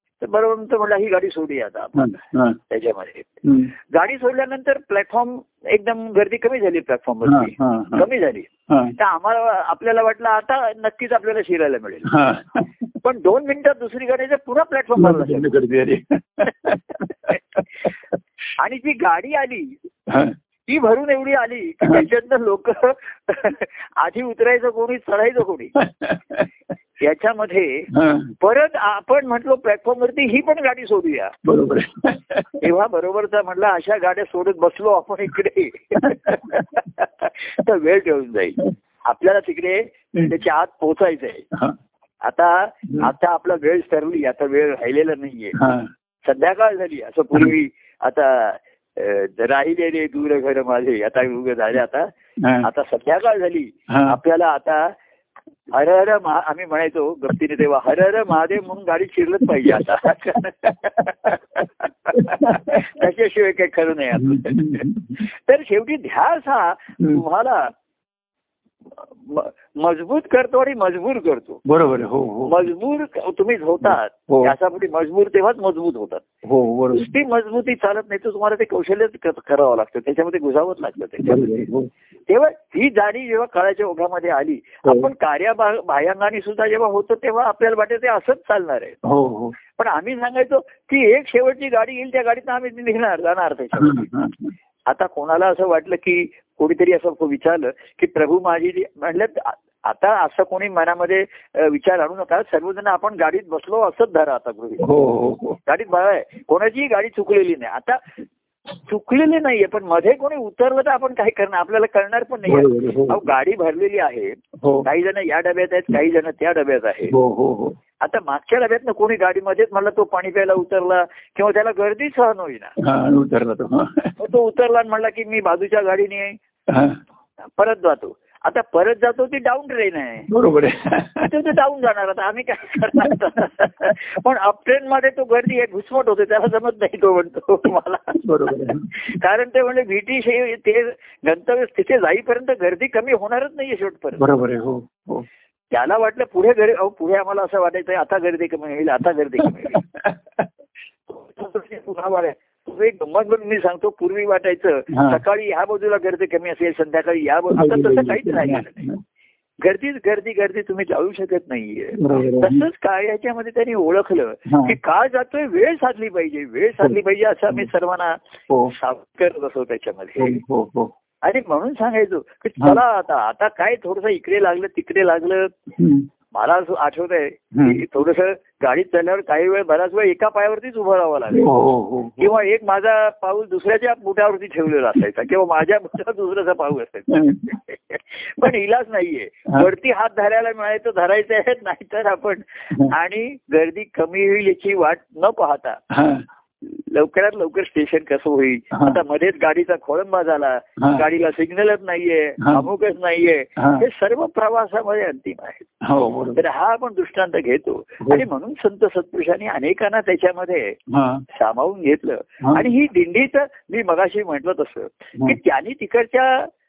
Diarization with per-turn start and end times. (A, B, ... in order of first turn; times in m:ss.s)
0:00.2-0:02.2 A
0:02.0-0:02.6 B
0:02.7-0:12.2 A
0:03.4-0:03.7 B
0:07.2-0:08.1 B
0:08.7-0:09.0 B
0:12.1-0:12.9 B
0:13.0-0:15.6 A
0:15.0-0:17.6 B
0:18.6-0:19.8 A
0:20.1-0:20.4 B
0:20.7-0:25.8 A
0:25.8-0:26.5 B
0:27.0-0:31.4 A
0:27.9-0:28.4 B
0:31.4-0:32.6 B
0:32.6-0:41.5 A
0:36.0-0:36.7 B
0:42.2-0:45.6 A
0:45.6-0:45.9 B
0:46.3-0:52.1 A
0:52.4-0:52.7 B
0:52.6-0:54.9 A
0:53.9-0:54.2 B
0:55.7-1:07.7 A
0:59.6-0:59.9 B
1:02.1-1:02.8 B
1:04.2-1:05.2 B
1:09.0-1:11.6 A
1:11.7-1:12.6 B
1:12.5-1:16.2 A
1:13.8-1:14.6 B
1:16.4-1:17.1 B
1:16.9-1:21.6 A
1:21.2-1:21.9 B
1:22.3-1:29.0 A
1:24.8-1:25.1 B
1:29.0-1:29.6 B
1:29.8-1:34.1 A
1:33.8-1:34.5 B
1:34.9-1:44.9 A
1:44.8-1:45.6 B
1:45.7-1:48.0 A
1:48.8-1:57.2 A
1:52.5-1:53.3 B
1:54.6-1:54.9 B
1:57.1-1:57.8 B
1:58.0-2:02.7 A
2:02.8-2:04.2 B
2:04.2-2:06.4 A
2:06.7-2:07.0 B
2:07.6-2:10.3 A
2:10.3-2:11.3 B
2:11.2-2:24.2 A
2:18.2-2:19.0 B
2:24.2-2:25.3 B
2:25.7-2:29.8 A
2:29.4-2:30.4 B
2:31.1-2:38.9 A
2:34.9-2:35.2 B
2:37.5-2:39.0 B
2:39.6-2:48.2 A
2:42.0-2:42.6 B
2:44.5-2:44.8 B
2:48.7-2:50.4 A
2:50.2-2:50.9 B
2:51.2-2:55.6 A
2:55.8-2:56.1 B
2:56.3-3:01.5 A
2:57.5-2:57.8 B
3:01.3-3:02.3 B
3:02.2-3:15.8 A
3:07.1-3:07.5 B
3:15.9-3:16.2 B
3:16.6-3:25.7 A
3:18.7-3:19.0 B
3:20.8-3:21.1 B
3:23.6-3:23.8 B
3:25.8-3:26.4 B
3:26.4-3:30.8 A
3:30.9-3:31.2 B
3:31.3-3:36.5 A